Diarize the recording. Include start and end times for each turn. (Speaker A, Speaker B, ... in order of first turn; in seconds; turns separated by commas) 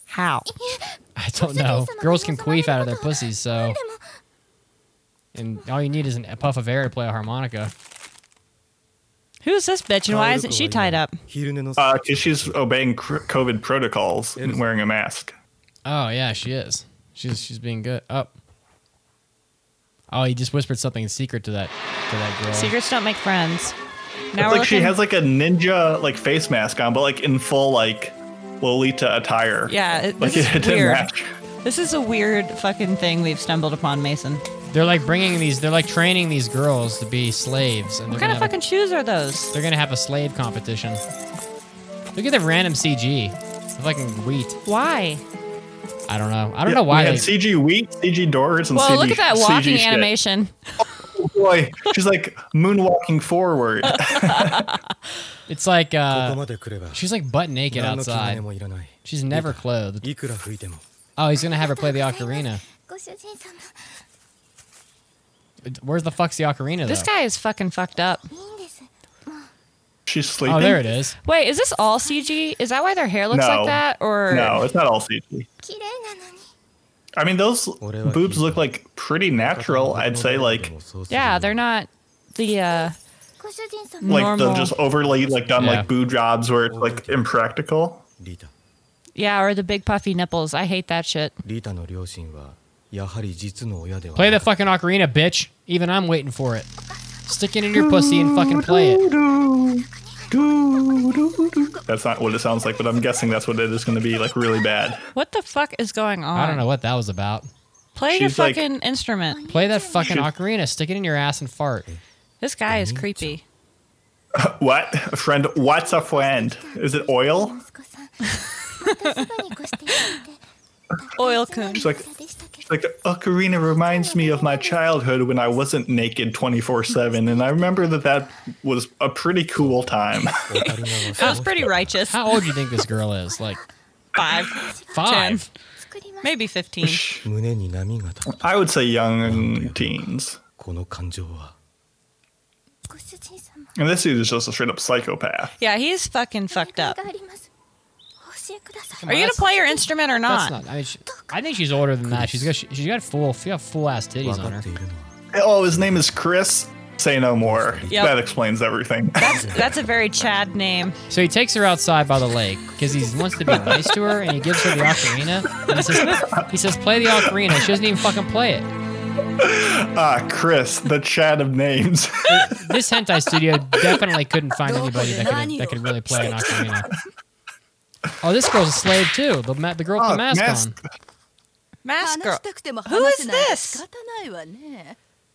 Speaker A: 0.1-0.5, Speaker B: 0.5-4.0, Speaker C: 1.2-3.8, Speaker C: 5.3-7.7, Speaker A: 9.4-11.2, Speaker D: 10.1-12.6, Speaker E: 11.8-15.3, Speaker D: 14.4-14.6, Speaker C: 15.8-18.3, Speaker C: 20.1-22.7, Speaker A: 22.5-23.7, Speaker A: 24.3-24.9, Speaker E: 24.4-31.3, Speaker A: 29.7-31.1, Speaker A: 31.6-34.4, Speaker C: 34.7-38.5, Speaker A: 38.1-39.5, Speaker C: 39.5-41.0, Speaker C: 42.1-44.6, Speaker A: 44.6-45.2, Speaker C: 46.1-47.3, Speaker E: 46.6-50.1, Speaker A: 48.7-50.5, Speaker E: 51.1-54.7, Speaker A: 53.8-54.8, Speaker C: 55.5-56.4, Speaker D: 56.1-57.1, Speaker C: 56.9-58.4, Speaker D: 57.7-60.8, Speaker C: 59.0-60.0, Speaker C: 61.2-62.6, Speaker B: 61.3-63.9, Speaker C: 65.6-67.1, Speaker A: 66.9-68.3, Speaker B: 68.3-69.5, Speaker E: 70.1-70.8, Speaker C: 70.4-71.2, Speaker A: 71.2-74.6, Speaker B: 72.0-72.3, Speaker E: 73.3-75.5, Speaker B: 75.6-76.5, Speaker E: 77.2-80.7, Speaker D: 77.8-78.7, Speaker D: 79.3-81.6, Speaker A: 81.1-83.0, Speaker B: 82.7-84.7, Speaker A: 84.0-84.7, Speaker E: 84.1-88.0, Speaker D: 84.9-86.0, Speaker C: 85.6-85.9, Speaker D: 86.7-87.3, Speaker D: 88.2-88.5, Speaker A: 89.2-91.3, Speaker D: 91.4-94.5, Speaker C: 94.2-96.7, Speaker C: 97.3-99.0, Speaker E: 97.7-105.1, Speaker B: 100.0-101.8, Speaker A: 105.1-106.6, Speaker C: 106.3-107.5, Speaker A: 107.9-109.4, Speaker E: 108.1-108.6, Speaker B: 109.3-110.3, Speaker C: 109.5-111.9, Speaker E: 110.0-110.3, Speaker A: 112.4-113.4, Speaker D: 112.7-113.4, Speaker E: 114.3-117.6, Speaker B: 115.5-120.4, Speaker A: 118.9-119.2, Speaker A: 119.9-120.2, Speaker B: 121.0-122.7, Speaker A: 121.2-121.9, Speaker E: 121.7-122.0, Speaker E: 122.7-130.7, Speaker B: 123.7-124.8, Speaker B: 126.9-128.3, Speaker D: 129.6-132.0, Speaker A: 131.2-132.4, Speaker C: 132.1-133.6, Speaker B: 133.3-133.7, Speaker A: 134.1-135.4, Speaker B: 134.4-135.1, Speaker C: 134.9-135.5, Speaker B: 135.8-136.3, Speaker A: 136.2-137.0, Speaker E: 136.8-137.2, Speaker D: 137.2-138.4, Speaker E: 138.3-140.4, Speaker D: 139.2-141.5, Speaker B: 142.9-143.7, Speaker E: 143.8-145.5, Speaker A: 145.6-147.0, Speaker B: 146.5-147.5, Speaker B: 148.2-149.9, Speaker C: 149.0-149.5, Speaker A: 149.1-150.6, Speaker C: 150.3-154.6, Speaker B: 151.1-151.4, Speaker D: 152.0-152.5, Speaker D: 154.2-156.1, Speaker E: 155.3-159.5, Speaker D: 157.4-158.1, Speaker A: 157.9-158.1, Speaker A: 159.2-161.0, Speaker D: 159.2-159.8, Speaker C: 161.1-168.7, Speaker E: 163.5-163.8, Speaker E: 165.7-166.4, Speaker E: 167.1-167.4, Speaker E: 169.4-172.6, Speaker C: 172.3-176.9, Speaker F: 174.6-176.7, Speaker C: 178.2-180.8, Speaker E: 180.0-180.8, Speaker A: 181.8-183.8, Speaker F: 182.0-185.0